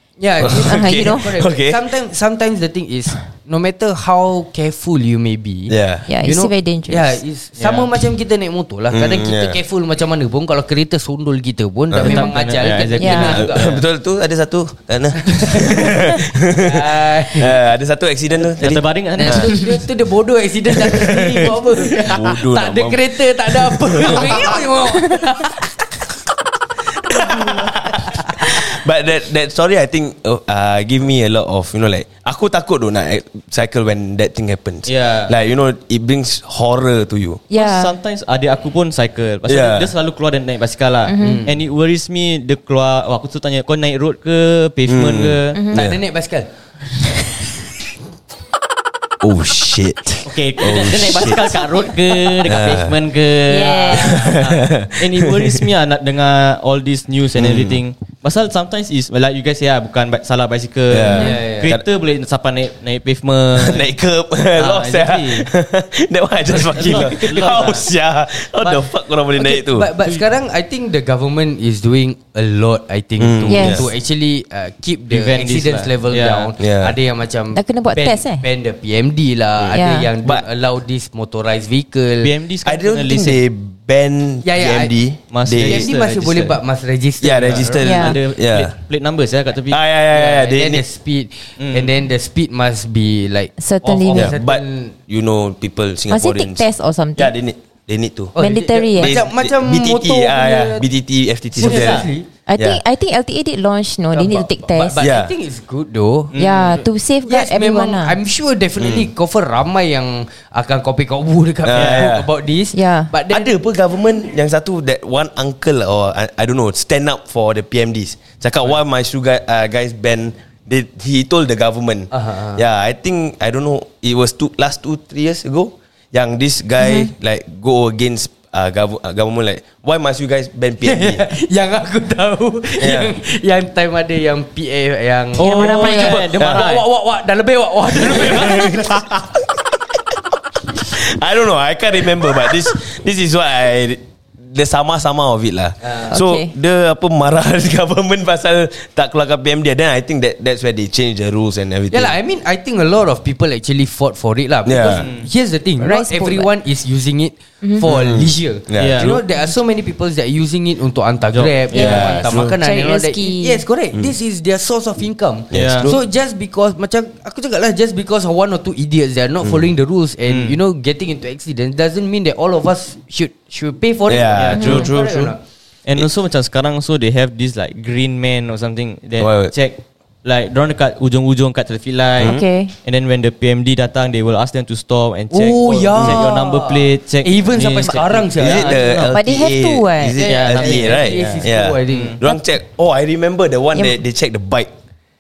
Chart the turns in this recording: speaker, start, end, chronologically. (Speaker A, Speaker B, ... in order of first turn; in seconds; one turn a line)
Speaker A: 0.2-13.7
Speaker B: 0.4-1.8
Speaker C: 0.6-1.3
Speaker B: 5.7-6.0
Speaker C: 6.1-7.2
Speaker D: 7.6-7.9
Speaker B: 8.9-9.6
Speaker B: 11.9-12.2
Speaker D: 12.0-13.8
Speaker C: 12.1-12.3
Speaker C: 13.0-13.4
Speaker B: 13.2-19.5
Speaker A: 15.2-17.6
Speaker D: 18.6-19.8
Speaker A: 19.2-25.7
Speaker B: 20.8-24.6
Speaker B: 27.1-37.4
Speaker A: 27.1-28.3
Speaker D: 34.9-35.3
Speaker C: 37.5-37.9
Speaker D: 37.5-45.6
Speaker B: 39.5-39.9
Speaker C: 41.1-41.4
Speaker A: 41.2-41.5
Speaker B: 44.9-46.0
Speaker C: 45.5-45.9
Speaker A: 45.7-46.5
Speaker B: 49.2-51.5
Speaker D: 50.2-63.9
Speaker B: 52.4-53.0
Speaker C: 53.5-54.3
Speaker A: 53.6-54.3
Speaker B: 53.9-55.6
Speaker B: 57.4-57.8
Speaker B: 60.9-61.9
Speaker A: 61.1-61.7
Speaker B: 63.5-69.9
Speaker D: 64.6-65.5
Speaker D: 66.5-67.9
Speaker A: 66.6-67.8
Speaker A: 69.4-82.3
Speaker B: 73.2-73.9
Speaker C: 73.5-73.9
Speaker D: 75.1-76.5
Speaker B: 76.6-77.0
Speaker C: 77.5-78.5
Speaker B: 79.6-80.4
Speaker C: 79.7-80.1
Speaker D: 82.2-83.4
Speaker B: 82.7-85.9
Speaker A: 84.4-84.9
Speaker D: 85.3-86.6
Speaker A: 85.6-87.8
Speaker B: 87.2-88.7
Speaker D: 87.8-89.8
Speaker C: 87.8-88.2
Speaker B: 89.7-90.8
Speaker A: 90.1-95.0
Speaker D: 91.6-91.9
Speaker C: 93.6-94.3
Speaker B: 94.1-96.6
Speaker C: 96.1-97.3
Speaker B: 97.2-98.3
Speaker A: 98.3-100.9
Speaker C: 98.4-99.9
Speaker B: 99.0-102.8
Speaker A: 101.5-102.3
Speaker D: 101.6-102.1
Speaker C: 102.5-105.0
Speaker A: 104.1-106.7
Speaker B: 105.0-105.3
Speaker D: 106.3-106.8
Speaker C: 106.4-108.2
Speaker A: 107.2-113.5
Speaker B: 108.8-109.1
Speaker B: 111.7-112.3
Speaker D: 111.8-112.1
Speaker C: 112.7-113.1
Speaker B: 113.3-131.2
Speaker A: 122.1-122.6
Speaker C: 126.8-127.1
Speaker A: 130.8-138.8
Speaker B: 132.8-133.1
Speaker D: 135.4-136.8
Speaker C: 135.4-136.2
Speaker B: 136.3-136.6
Speaker B: 137.9-139.4
Speaker B: 140.7-152.1
Speaker A: 145.8-146.1
Speaker C: 146.1-146.5
Speaker A: 151.9-175.4
Speaker B: 154.7-155.1
Speaker D: 154.8-155.3
Speaker C: 155.8-156.5
Speaker C: 157.6-157.9
Speaker B: 157.8-159.2
Speaker D: 158.8-159.2
Speaker D: 161.3-162.0
Speaker B: 161.7-162.6
Speaker C: 161.7-163.6
Speaker B: 165.5-166.0
Speaker D: 165.5-165.9
Speaker D: 170.3-170.6
Speaker B: 174.1-175.3
Speaker D: 174.3-174.9
Speaker D: 175.9-189.2
Speaker B: 179.2-179.5
Speaker C: 182.2-182.7
Speaker A: 185.3-188.8
Speaker B: 188.4-194.7
Speaker C: 189.1-190.2
Speaker D: 190.2-192.2
Speaker A: 190.2-192.2